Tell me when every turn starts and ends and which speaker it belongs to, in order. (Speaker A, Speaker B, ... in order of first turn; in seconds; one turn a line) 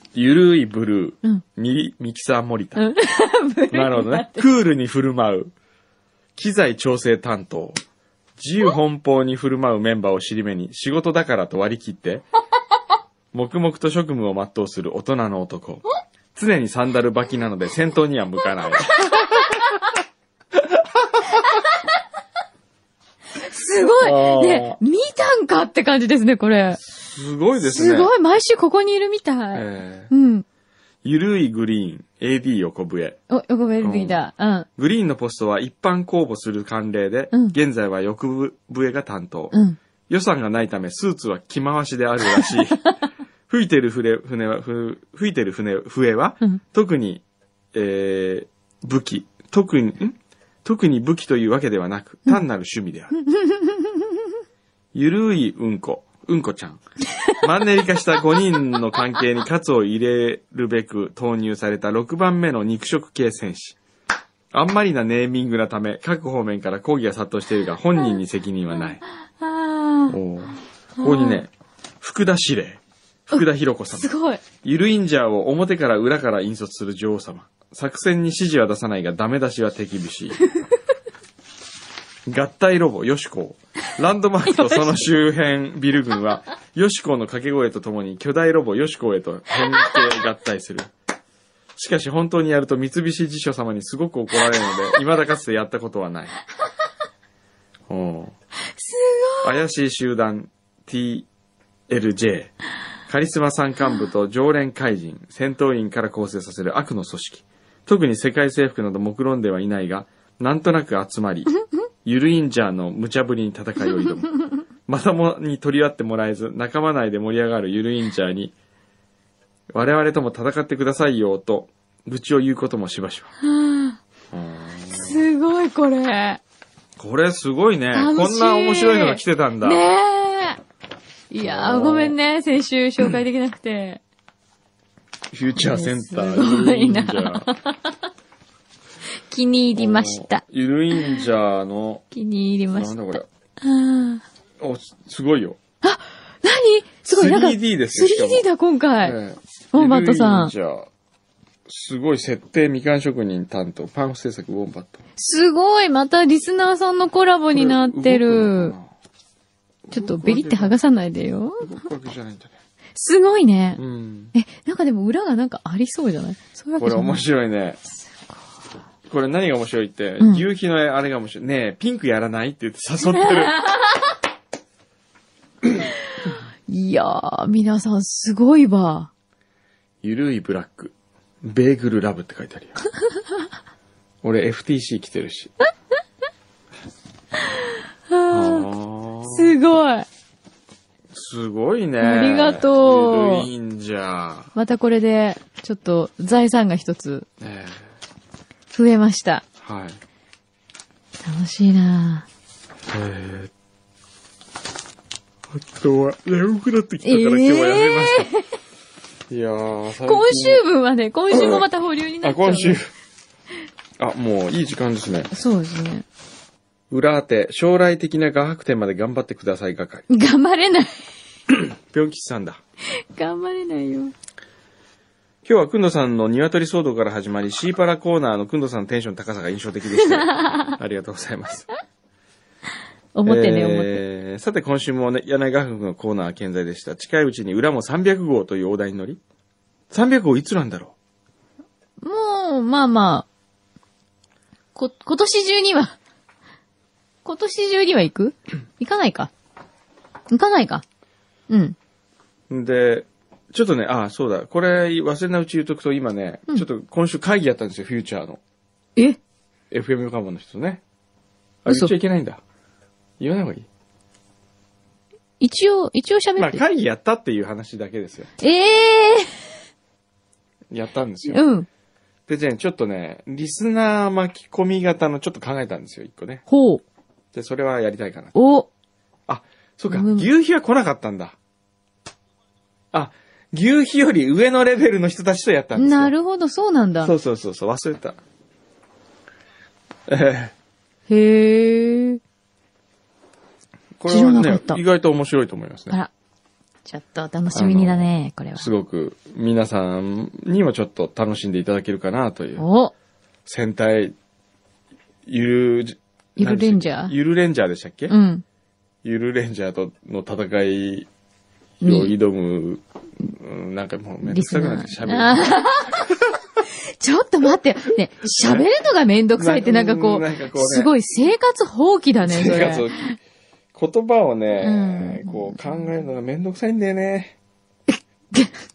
Speaker A: 0.1-2.8
Speaker B: 2.8-4.5
Speaker A: 3.7-5.5
Speaker A: 6.3-7.8
Speaker A: 8.4-12.2
Speaker A: 13.3-15.8
Speaker A: 16.3-19.6
Speaker A: 20.6-21.3
Speaker B: 23.4-26.8
Speaker A: 24.0-24.8
Speaker A: 27.0-28.1
Speaker B: 27.6-30.4
Speaker A: 29.5-30.1
Speaker A: 31.0-33.2
Speaker B: 33.3-34.7
Speaker A: 33.8-34.2
Speaker A: 34.8-39.5
Speaker B: 39.5-39.8
Speaker A: 40.1-42.9
Speaker A: 43.5-47.2
Speaker A: 47.7-53.1
Speaker B: 53.2-54.1
Speaker A: 54.9-56.8
Speaker A: 57.3-63.8
Speaker A: 64.5-69.0
Speaker B: 69.4-70.1
Speaker A: 70.1-71.5
Speaker B: 71.0-71.4
Speaker A: 72.0-74.1
Speaker B: 73.3-74.4
Speaker A: 74.6-80.4
Speaker A: 82.2-90.9
Speaker B: 84.5-85.0
Speaker A: 91.8-96.3
Speaker A: 97.9-98.3
Speaker B: 98.8-99.5
Speaker A: 99.4-101.3
Speaker A: 101.9-102.5
Speaker A: 103.1-111.5
Speaker A: 112.0-118.5
Speaker A: 119.7-123.3
Speaker B: 123.4-124.0
Speaker A: 124.3-125.2
Speaker B: 124.9-126.4
Speaker A: 127.0-129.8
Speaker B: 127.9-130.6
Speaker B: 131.3-134.0
Speaker A: 131.4-132.2
Speaker A: 135.3-137.5
Speaker B: 135.6-137.9
Speaker B: 139.2-140.4
Speaker A: 139.7-142.0
Speaker B: 142.1-144.2
Speaker A: 142.7-143.2
Speaker A: 144.6-145.6
Speaker B: 145.8-149.2
Speaker A: 147.1-148.4
Speaker A: 149.0-150.9
Speaker B: 149.7-150.5
Speaker A: 151.7-155.0
Speaker B: 155.2-158.7
Speaker A: 157.5-158.9
Speaker A: 159.9-160.8
Speaker B: 159.9-161.7
Speaker A: 161.6-162.5
Speaker B: 162.9-163.8
Speaker A: 163.8-164.3
Speaker B: 164.3-167.2
Speaker A: 166.8-167.8
Speaker B: 168.0-168.4
Speaker A: 169.1-173.6
Speaker B: 170.2-170.4
Speaker B: 173.1-174.1
Speaker B: 176.7-179.1
Speaker A: 180.0-182.8
Speaker A: 184.2-185.5
Speaker B: 187.5-188.7
Speaker A: 188.3-189.5
Speaker B: 189.3-190.1
Speaker A: 191.1-194.5
Speaker B: 192.0-193.5
Speaker B: 194.5-197.3
Speaker A: 197.4-197.9
Speaker B: 198.7-199.4
Speaker A: 199.6-200.0
Speaker B: 201.2-202.3
Speaker A: 202.9-203.5
Speaker A: 205.5-208.3
Speaker B: 207.0-208.4
Speaker A: 209.3-210.6
Speaker B: 210.0-212.8
Speaker A: 211.3-211.7
Speaker A: 212.2-212.9
Speaker A: 214.0-215.3
Speaker B: 215.3-216.1
Speaker A: 216.9-220.1
Speaker B: 220.1-221.1
Speaker A: 221.5-222.6
Speaker B: 223.0-224.1
Speaker A: 225.4-231.7
Speaker B: 230.0-230.7
Speaker B: 233.1-234.0
Speaker A: 233.2-239.2
Speaker A: 239.9-240.9
Speaker B: 242.0-243.3
Speaker B: 244.7-246.0
Speaker B: 247.2-249.3
Speaker B: 250.3-250.8
Speaker B: 251.5-251.8
Speaker A: 252.5-258.4
Speaker A: 259.7-260.8
Speaker A: 261.6-262.4
Speaker B: 261.7-261.9
Speaker A: 263.2-263.7
Speaker B: 265.4-266.6
Speaker A: 266.4-268.3
Speaker B: 268.4-269.3
Speaker A: 270.7-271.4
Speaker B: 271.3-271.7
Speaker A: 272.3-276.4
Speaker B: 276.5-276.8
Speaker A: 277.3-278.3
Speaker B: 278.3-278.7
Speaker A: 279.3-281.4
Speaker B: 279.9-280.3
Speaker A: 282.9-286.1
Speaker B: 285.8-287.1
Speaker A: 287.0-288.2
Speaker A: 290.1-290.5
Speaker B: 291.1-292.2
Speaker A: 294.0-296.0
Speaker B: 294.1-294.8
Speaker B: 296.8-298.7
Speaker A: 297.5-302.6
Speaker B: 302.6-302.9
Speaker A: 303.4-304.1
Speaker A: 305.2-308.1
Speaker B: 306.4-307.1
Speaker B: 308.1-308.4
Speaker A: 309.0-311.1
Speaker B: 311.8-312.1
Speaker A: 311.8-316.3
Speaker B: 314.2-316.1
Speaker B: 316.9-323.1
Speaker A: 318.2-318.7
Speaker A: 319.4-320.9
Speaker A: 322.2-323.1
Speaker A: 323.7-327.4
Speaker B: 324.6-325.6
Speaker B: 327.9-328.6